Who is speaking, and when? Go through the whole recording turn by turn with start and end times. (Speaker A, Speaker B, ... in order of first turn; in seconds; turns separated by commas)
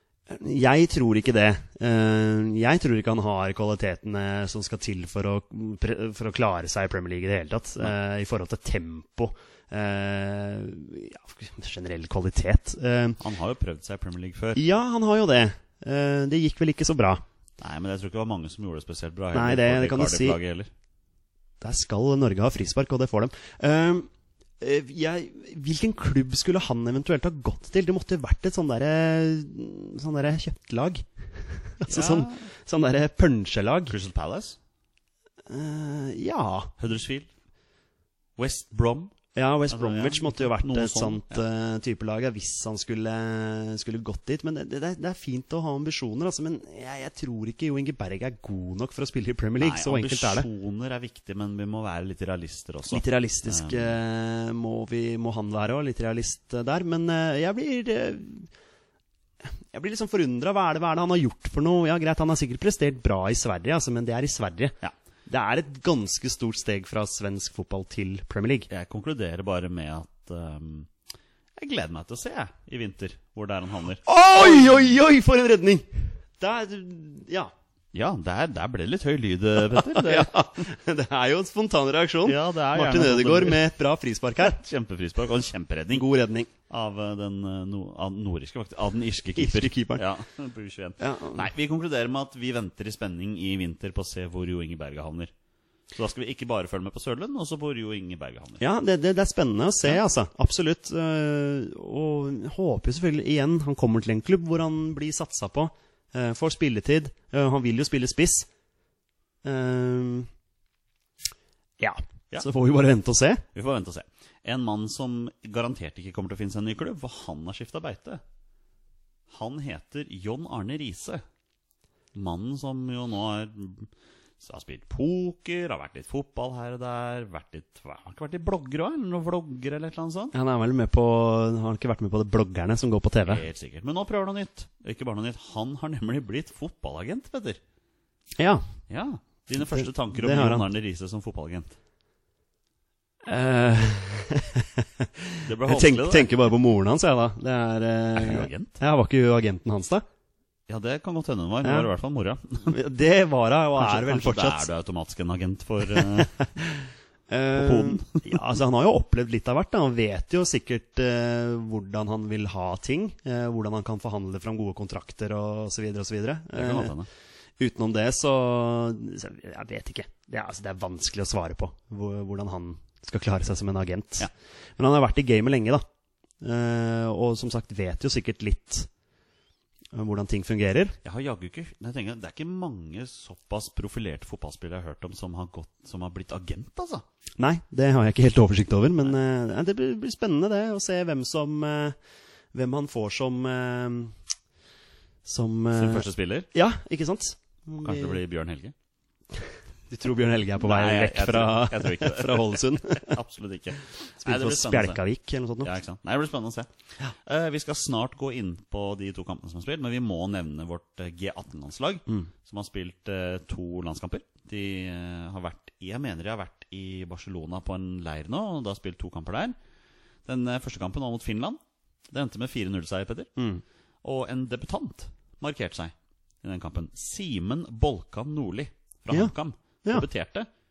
Speaker A: 0.3-13.2, Speaker B: 13.2-14.6, Speaker A: 14.5-17.2, Speaker B: 17.6-20.7, Speaker A: 19.3-20.4, Speaker A: 21.6-24.1, Speaker A: 24.6-33.9, Speaker B: 31.9-32.5, Speaker B: 33.9-34.6, Speaker A: 35.5-36.7, Speaker B: 36.8-37.3, Speaker B: 38.4-39.1, Speaker A: 39.3-50.5, Speaker B: 39.7-41.4, Speaker B: 49.6-54.0, Speaker A: 52.9-58.5, Speaker A: 59.7-68.7, Speaker B: 68.7-70.9, Speaker B: 71.6-74.9, Speaker A: 74.0-77.5, Speaker B: 77.9-80.5, Speaker A: 79.7-84.6, Speaker B: 82.2-83.7, Speaker B: 84.4-86.0, Speaker A: 85.9-86.5, Speaker B: 86.7-95.3, Speaker A: 89.3-90.0, Speaker A: 91.0-91.5, Speaker B: 95.9-98.6, Speaker A: 98.6-108.5, Speaker A: 109.4-110.3, Speaker A: 111.8-113.4, Speaker B: 113.5-118.2, Speaker B: 119.3-121.2, Speaker B: 122.1-130.3, Speaker A: 130.3-133.4, Speaker B: 133.2-137.6, Speaker A: 138.3-138.6, Speaker B: 138.9-141.8, Speaker A: 139.6-140.7, Speaker A: 143.2-150.0, Speaker B: 145.4-146.3, Speaker B: 148.1-148.8, Speaker B: 150.7-152.8, Speaker A: 151.6-151.9, Speaker A: 152.6-154.7, Speaker B: 153.8-156.4, Speaker A: 155.9-166.9, Speaker B: 157.5-158.4, Speaker B: 166.5-167.1, Speaker A: 167.6-175.8, Speaker A: 176.4-178.9, Speaker A: 179.9-180.9, Speaker B: 181.0-187.0, Speaker A: 187.4-192.0, Speaker A: 192.5-194.1, Speaker A: 195.2-198.2, Speaker B: 195.7-196.5, Speaker B: 197.8-198.7, Speaker A: 199.9-203.2, Speaker B: 200.6-205.0, Speaker A: 204.2-205.8, Speaker B: 205.6-219.6, Speaker B: 220.2-223.3, Speaker A: 223.4-223.6, Speaker B: 224.0-230.5